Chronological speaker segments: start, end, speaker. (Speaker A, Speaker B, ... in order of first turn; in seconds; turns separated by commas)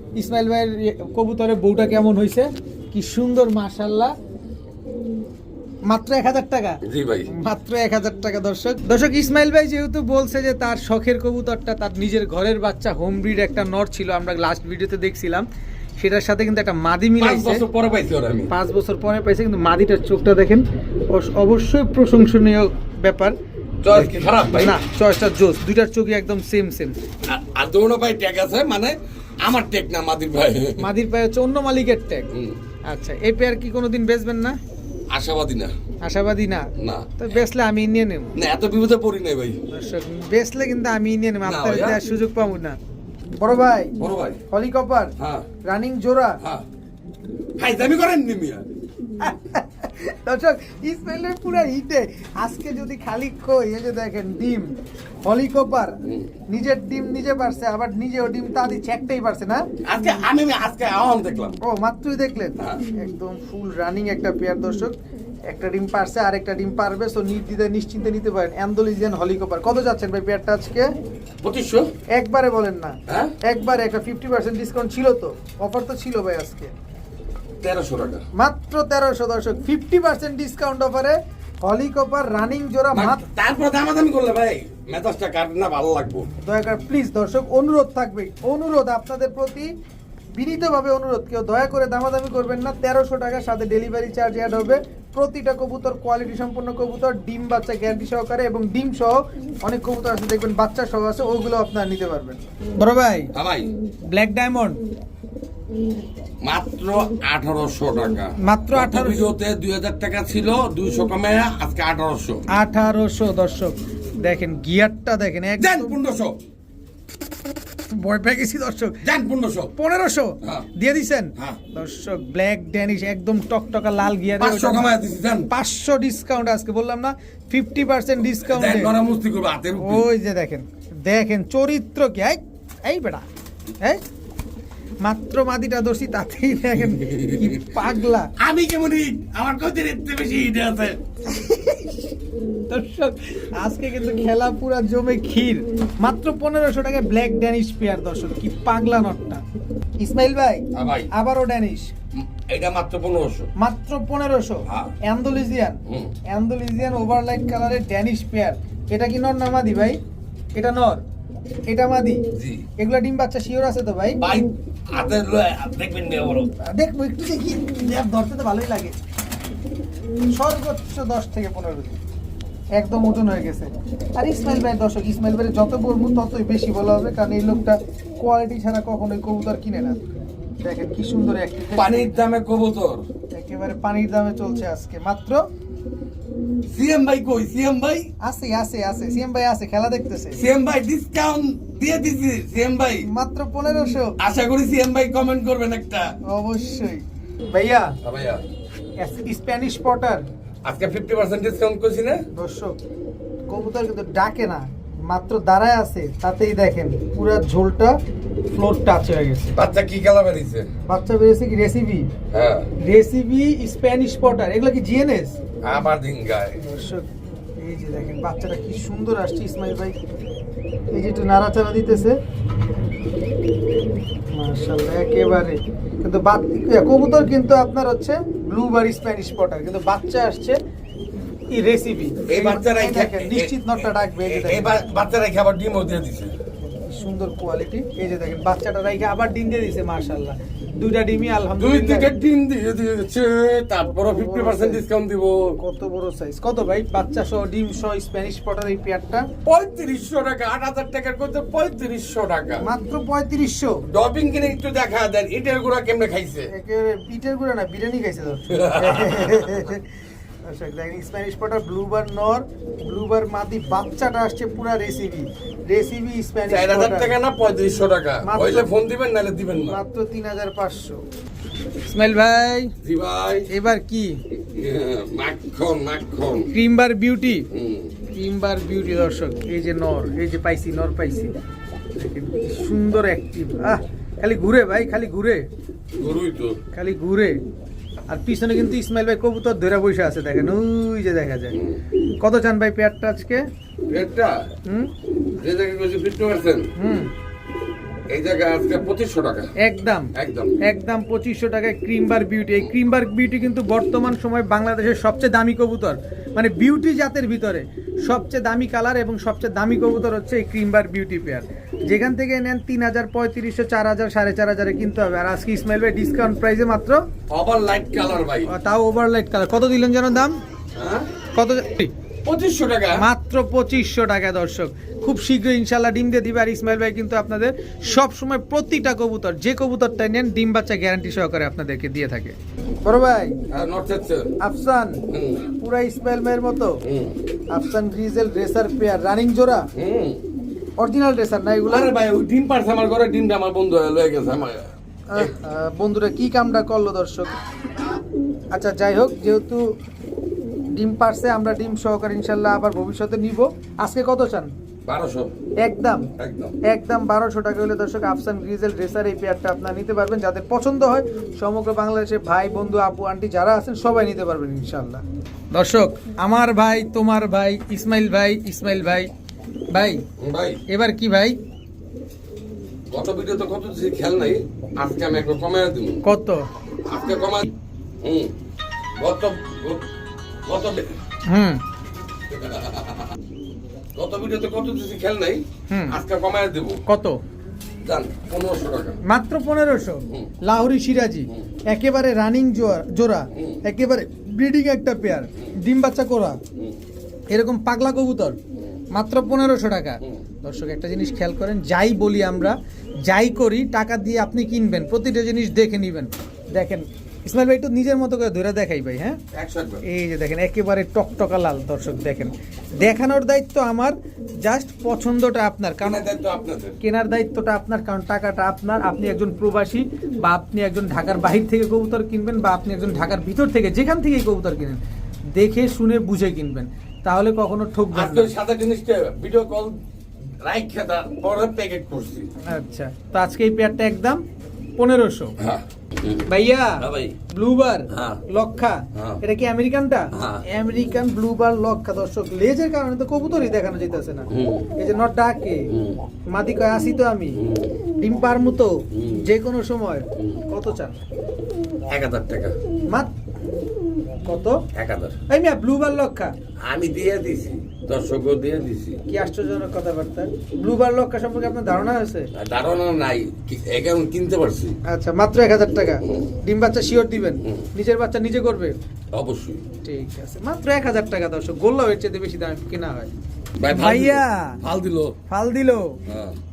Speaker A: 0.2-4.1, Speaker A: 5.9-15.5, Speaker B: 6.8-7.3, Speaker A: 16.0-17.6, Speaker B: 17.2-18.5, Speaker A: 18.5-23.4, Speaker B: 23.8-24.8, Speaker A: 23.9-26.9, Speaker B: 27.3-30.9, Speaker A: 30.8-32.3, Speaker B: 32.3-32.6, Speaker A: 32.9-34.6, Speaker B: 35.1-35.7, Speaker A: 36.0-38.3, Speaker B: 36.8-37.4, Speaker B: 38.3-39.6, Speaker A: 39.7-42.8, Speaker B: 41.4-42.0, Speaker A: 43.4-44.0, Speaker B: 44.0-44.4, Speaker A: 44.5-45.1, Speaker B: 45.2-45.5, Speaker A: 45.6-46.4, Speaker B: 47.6-48.6, Speaker A: 49.2-59.6, Speaker B: 56.0-56.3, Speaker B: 59.9-61.6, Speaker A: 61.6-65.0, Speaker A: 65.5-70.9, Speaker B: 71.4-71.9, Speaker A: 72.1-76.7, Speaker B: 73.1-73.3, Speaker B: 77.6-78.2, Speaker A: 78.3-83.2, Speaker B: 82.9-86.3, Speaker A: 86.4-89.7, Speaker A: 90.3-103.3, Speaker B: 103.3-103.7, Speaker A: 104.1-104.8, Speaker B: 106.4-112.4, Speaker A: 108.4-109.3, Speaker A: 112.5-116.0, Speaker B: 115.6-116.4, Speaker A: 117.9-119.0, Speaker B: 119.0-119.8, Speaker A: 119.8-124.8, Speaker B: 120.4-120.7, Speaker B: 124.4-125.5, Speaker A: 125.5-128.9, Speaker B: 128.4-130.0, Speaker A: 129.8-133.2, Speaker A: 135.0-138.3, Speaker B: 136.9-137.8, Speaker B: 138.4-141.0, Speaker A: 141.2-149.4, Speaker A: 150.0-151.9, Speaker B: 150.7-151.1, Speaker B: 152.2-153.5, Speaker A: 153.6-160.0, Speaker B: 154.7-154.9, Speaker B: 155.8-156.1, Speaker A: 160.5-161.0, Speaker A: 161.7-162.2, Speaker B: 162.3-162.7, Speaker A: 162.8-164.2, Speaker B: 164.2-166.5, Speaker A: 166.6-168.9, Speaker A: 170.2-172.0, Speaker A: 172.8-180.0, Speaker A: 180.6-182.1, Speaker B: 181.8-183.0, Speaker A: 183.3-185.4, Speaker B: 186.7-188.1, Speaker A: 188.2-190.5, Speaker B: 190.3-193.1, Speaker A: 193.1-194.1, Speaker B: 194.2-196.2, Speaker A: 196.2-198.0, Speaker B: 198.0-198.4, Speaker A: 199.0-200.2, Speaker B: 200.6-202.2, Speaker A: 202.3-202.8, Speaker A: 203.5-208.0, Speaker A: 208.5-209.6, Speaker B: 209.5-210.7, Speaker A: 210.8-212.1, Speaker B: 212.3-212.7, Speaker A: 212.8-215.4, Speaker B: 215.6-216.6, Speaker A: 216.6-220.0, Speaker A: 220.9-222.2, Speaker A: 224.3-230.6, Speaker A: 231.5-234.8, Speaker B: 232.3-236.3, Speaker A: 236.6-242.1, Speaker B: 241.6-245.6, Speaker A: 243.8-244.8, Speaker A: 245.6-249.3, Speaker B: 249.4-252.7, Speaker A: 252.6-253.8, Speaker B: 253.8-256.5, Speaker A: 256.5-267.1, Speaker B: 258.5-259.6, Speaker B: 266.5-269.8, Speaker A: 268.2-268.7, Speaker A: 269.7-271.0, Speaker A: 271.8-272.8, Speaker B: 272.8-273.5, Speaker A: 273.5-274.2, Speaker B: 274.5-276.5, Speaker A: 276.5-277.5, Speaker B: 277.5-278.0, Speaker A: 278.1-281.4, Speaker A: 281.9-285.5, Speaker B: 286.0-286.6, Speaker A: 286.7-287.4, Speaker A: 288.1-291.6, Speaker B: 291.5-291.8, Speaker A: 292.2-293.5, Speaker B: 293.9-294.5, Speaker A: 294.6-294.9, Speaker B: 295.4-296.7, Speaker A: 296.8-297.1, Speaker B: 298.1-299.5, Speaker A: 299.6-317.0, Speaker B: 300.1-300.6, Speaker B: 317.3-318.5, Speaker A: 318.5-320.4, Speaker B: 320.8-321.1, Speaker A: 321.3-321.9, Speaker B: 322.2-323.1, Speaker A: 323.0-333.4, Speaker B: 333.5-334.4, Speaker A: 334.4-335.0, Speaker B: 335.1-335.5, Speaker A: 335.6-336.8, Speaker B: 336.8-337.2, Speaker A: 337.5-339.7, Speaker B: 339.8-340.2, Speaker A: 340.8-341.9, Speaker B: 341.7-345.3, Speaker A: 345.1-347.4, Speaker A: 348.5-349.8, Speaker A: 350.7-354.5, Speaker B: 354.9-355.3, Speaker A: 355.6-356.1, Speaker B: 356.2-356.5, Speaker A: 356.6-369.1, Speaker A: 369.7-370.0, Speaker B: 370.2-370.6, Speaker A: 370.7-371.4, Speaker B: 372.9-376.0, Speaker A: 376.0-376.5, Speaker B: 376.8-377.5, Speaker B: 378.0-378.3, Speaker B: 379.0-379.9, Speaker B: 380.5-380.9, Speaker A: 381.2-381.6, Speaker B: 382.3-383.1, Speaker B: 384.0-386.8, Speaker A: 385.7-386.0, Speaker A: 386.9-387.2, Speaker B: 387.8-389.0, Speaker A: 389.0-396.4, Speaker B: 393.3-393.6, Speaker A: 397.3-398.4, Speaker B: 398.6-398.8, Speaker A: 398.9-409.2, Speaker B: 409.3-409.8, Speaker A: 409.8-416.0, Speaker B: 415.8-416.8, Speaker A: 416.8-424.8, Speaker A: 425.3-428.3, Speaker B: 427.9-429.8, Speaker B: 430.4-432.3, Speaker A: 432.4-434.2, Speaker A: 434.8-435.3, Speaker B: 435.4-437.2, Speaker A: 436.3-445.7, Speaker B: 437.9-438.2, Speaker B: 438.9-439.2, Speaker B: 440.1-440.5, Speaker B: 444.3-444.7, Speaker B: 445.7-446.0, Speaker A: 446.3-447.4, Speaker B: 447.4-447.8, Speaker A: 448.0-451.0, Speaker B: 448.9-449.2, Speaker B: 451.9-452.6, Speaker A: 454.2-454.6, Speaker B: 454.7-455.2, Speaker A: 455.3-456.3, Speaker B: 456.6-459.0, Speaker A: 459.1-462.3, Speaker B: 462.3-464.8, Speaker A: 464.8-468.8, Speaker B: 466.0-466.3, Speaker B: 467.4-467.7, Speaker B: 469.1-469.6, Speaker A: 469.8-473.1, Speaker B: 473.6-475.2, Speaker A: 473.7-474.6, Speaker A: 475.3-476.0, Speaker B: 476.1-476.4